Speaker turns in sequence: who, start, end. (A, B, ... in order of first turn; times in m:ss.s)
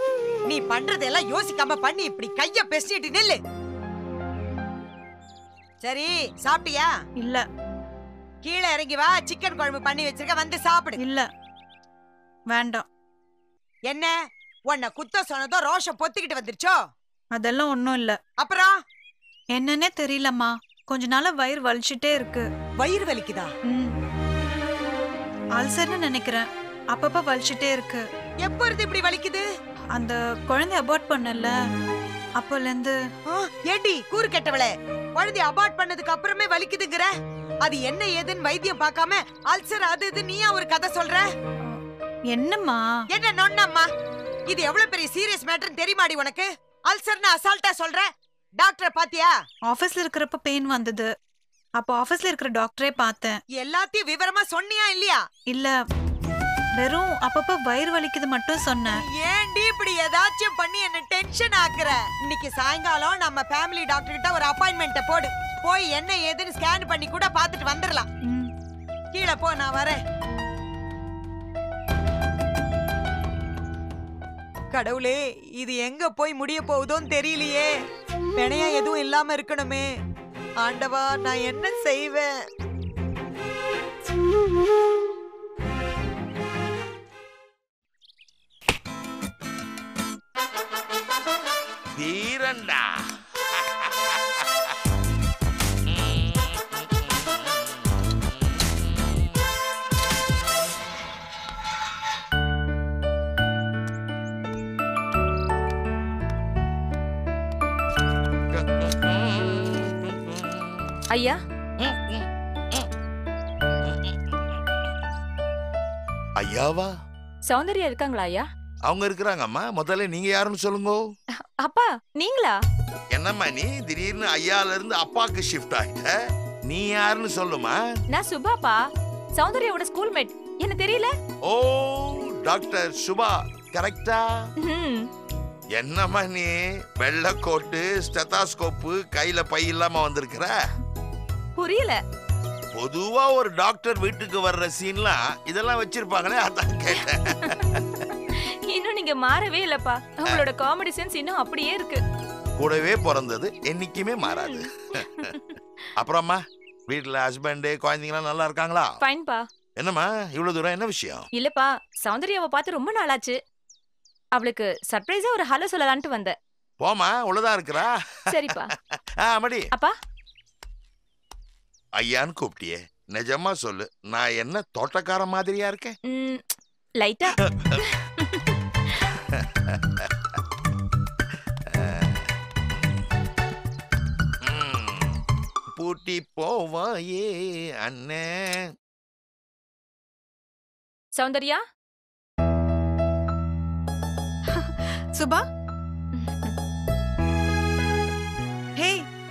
0:00.5-0:03.4 A
0:05.8-0:06.9 A
0:07.2-0:07.4 B
0:08.4-0:11.0 A
0:11.0-0:11.3 B
0:12.5-0:12.8 B
0:13.9-0:14.1 A
0:14.7-0:16.8 A
0:17.3-0:18.2 B
0:18.4-0:18.7 A
0:19.5-0:22.4 B
0:22.8-0:23.5 A
0:23.7-0:23.9 B
0:25.6-0:28.0 B
0:28.4-0:29.4 A
0:30.0-0:31.5 B
0:32.4-0:33.0 B
0:33.3-0:37.1 A
0:37.6-0:41.2 A
0:42.3-0:42.8 B
0:43.1-0:43.9 A
0:44.5-0:48.0 A
0:48.6-0:49.3 A
0:49.6-0:51.1 B
0:51.8-0:53.4 B
0:53.6-0:55.2 A
0:55.5-0:55.7 B
0:56.8-0:59.0 B
0:58.8-1:08.1 A
1:09.1-1:10.0 A
1:14.7-1:17.7 A
1:18.4-1:19.9 A
1:20.6-1:22.3 A
1:32.0-1:32.9 C
1:33.6-1:34.2 C
1:48.6-1:49.2 C
1:51.1-1:51.4 D
1:51.8-1:52.9 C
1:56.4-1:56.9 C
1:57.5-1:58.4 D
1:58.9-2:01.0 C
2:01.6-2:02.6 D
2:03.1-2:06.1 C
2:06.7-2:07.8 C
2:08.1-2:08.8 D
2:09.4-2:11.1 D
2:11.5-2:14.3 C
2:14.6-2:15.1 D
2:15.8-2:20.5 C
2:21.6-2:22.0 D
2:22.7-2:27.8 C
2:27.4-2:27.6 D
2:28.3-2:32.0 D
2:32.6-2:35.0 C
2:34.2-2:35.6 D
2:36.0-2:39.0 C
2:39.0-2:39.4 D
2:39.8-2:41.2 C
2:41.3-2:43.4 D
2:44.3-2:46.3 D
2:46.8-2:48.0 C
2:48.3-2:48.7 D
2:49.2-2:49.7 C
2:52.0-2:56.0 C
2:56.1-2:56.4 D
2:57.0-2:59.1 D
2:59.3-3:00.1 C
3:01.7-3:02.2 C
3:04.4-3:05.2 C
3:05.8-3:08.6 C
3:11.1-3:11.6 D
3:14.5-3:15.4 B
3:16.1-3:16.5 D